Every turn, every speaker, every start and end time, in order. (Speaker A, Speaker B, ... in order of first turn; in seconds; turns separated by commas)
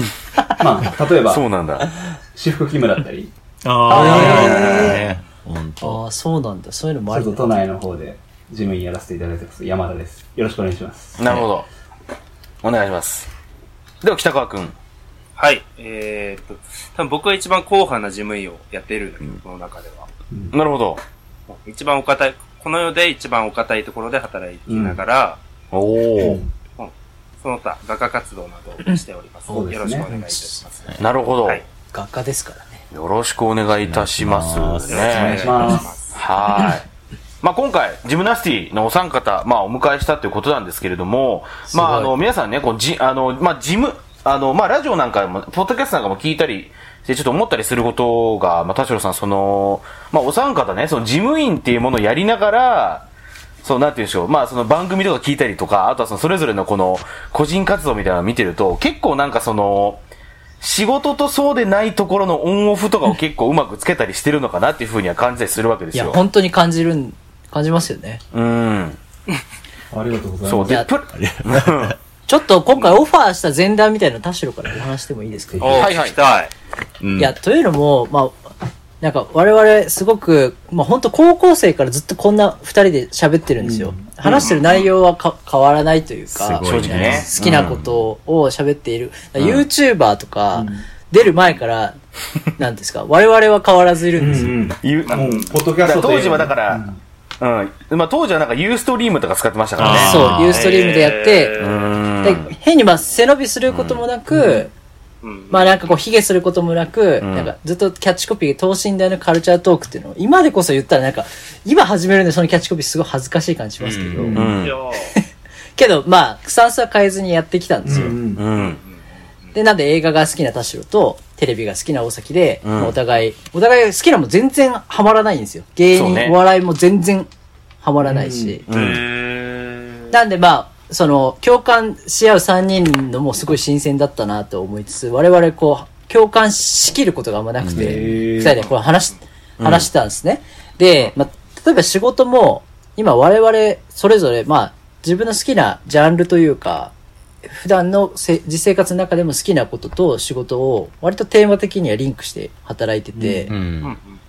Speaker A: 0.6-1.4, Speaker B: 1.3-1.9, Speaker A: 2.3-3.3, Speaker C: 3.6-6.0, Speaker B: 3.9-4.9, Speaker D: 3.9-5.0, Speaker A: 4.2-5.0, Speaker D: 5.8-7.5, Speaker A: 7.1-11.2, Speaker B: 11.2-11.7, Speaker B: 12.6-13.3, Speaker B: 14.0-14.8, Speaker E: 15.4-20.1, Speaker B: 20.5-21.0, Speaker E: 21.5-25.4, Speaker A: 24.7-25.0, Speaker B: 25.7-26.4, Speaker A: 26.2-26.5, Speaker E: 26.8-31.6, Speaker A: 29.5-30.1, Speaker D: 30.1-30.6, Speaker B: 31.0-31.6, Speaker D: 31.9-32.8, Speaker B: 32.9-35.5, Speaker C: 33.8-35.4, Speaker E: 34.9-36.2, Speaker A: 35.1-35.9, Speaker B: 36.1-36.8, Speaker B: 37.4-53.1, Speaker D: 41.7-42.1, Speaker B: 53.6-60.0, Speaker B: 60.6-66.2, Speaker D: 65.9-68.2, Speaker B: 68.3-69.0, Speaker A: 69.9-70.8, Speaker B: 70.5-72.0, Speaker C: 71.1-72.0, Speaker D: 72.3-75.8, Speaker A: 75.5-75.9, Speaker E: 75.6-76.5, Speaker B: 75.8-76.2, Speaker B: 77.0-77.3, Speaker D: 77.2-78.4, Speaker D: 79.0-92.0, Speaker A: 83.6-84.4, Speaker E: 84.4-84.9, Speaker C: 86.3-88.0, Speaker B: 86.6-87.8, Speaker B: 89.4-89.6, Speaker A: 90.5-90.9, Speaker D: 92.6-94.5, Speaker A: 94.2-97.0, Speaker B: 94.8-96.8, Speaker E: 95.1-95.5, Speaker B: 97.4-100.3, Speaker C: 99.8-100.7, Speaker D: 99.8-101.6, Speaker E: 100.3-102.0, Speaker B: 101.6-102.5, Speaker D: 102.2-104.7, Speaker B: 103.7-104.0, Speaker A: 104.3-104.7, Speaker E: 105.2-106.0, Speaker D: 105.5-114.4, Speaker B: 107.2-107.5, Speaker C: 113.8-114.4, Speaker A: 114.2-114.5, Speaker B: 114.3-114.8, Speaker E: 114.6-115.1, Speaker D: 115.8-118.2, Speaker A: 117.8-118.5, Speaker B: 117.9-118.8, Speaker E: 118.5-119.0, Speaker D: 119.5-127.3, Speaker B: 122.6-123.0, Speaker B: 125.9-126.4, Speaker D: 127.8-128.7, Speaker A: 128.0-128.6, Speaker E: 128.7-130.0, Speaker B: 128.7-129.0, Speaker D: 130.1-146.9, Speaker C: 137.6-138.2, Speaker A: 137.8-138.6, Speaker B: 139.6-139.9, Speaker D: 147.5-153.5, Speaker A: 153.2-153.5, Speaker C: 153.5-154.0, Speaker E: 153.8-154.2